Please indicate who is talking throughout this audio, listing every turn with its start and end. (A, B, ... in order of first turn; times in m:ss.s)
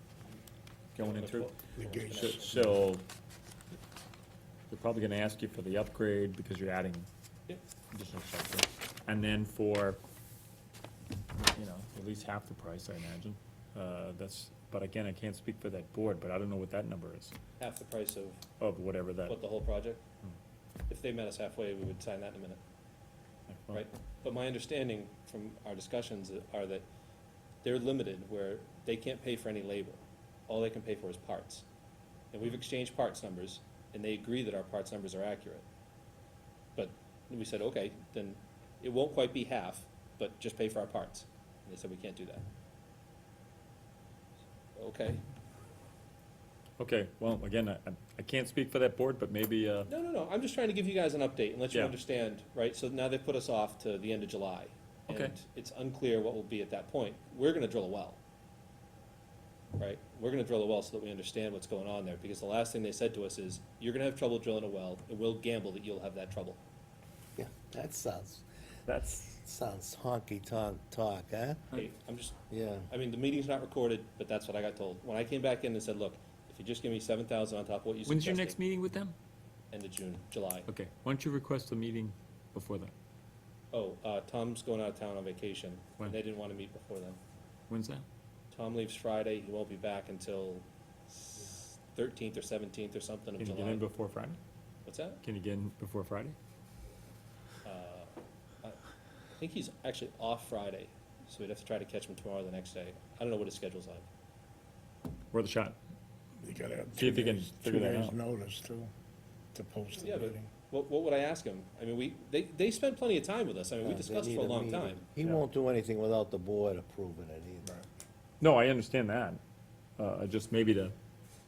0:01.0-0:01.5 A
0:01.0-0:02.7 B
0:01.8-0:02.6 C
0:02.1-0:03.0 A
0:04.7-0:07.1 A
0:07.9-0:10.0 A
0:11.4-0:17.3 A
0:17.6-0:18.4 B
0:18.6-0:19.4 A
0:19.3-0:20.0 B
0:20.9-0:22.6 B
0:23.5-0:23.8 A
0:23.7-0:26.8 B
0:27.6-0:31.6 B
0:32.3-0:35.6 B
0:36.8-0:42.4 B
0:44.7-0:45.2 B
0:46.8-0:49.9 A
0:49.9-0:58.2 B
0:55.1-0:55.3 A
0:59.8-1:06.6 B
1:07.4-1:11.6 D
1:11.7-1:12.4 B
1:12.5-1:12.9 D
1:12.9-1:18.6 B
1:18.0-1:19.1 A
1:19.7-1:20.7 B
1:20.7-1:22.9 A
1:23.7-1:27.2 B
1:27.7-1:28.0 A
1:28.5-1:33.8 B
1:33.4-1:34.4 A
1:34.8-1:35.2 B
1:35.2-1:36.4 A
1:37.6-1:38.8 B
1:39.4-1:44.0 B
1:45.3-1:45.8 A
1:46.4-1:48.9 C
1:47.0-1:48.2 A
1:49.5-1:50.5 C
1:50.0-1:55.1 B
1:53.8-1:57.7 D
1:58.4-1:59.4 A
2:00.0-2:00.9 A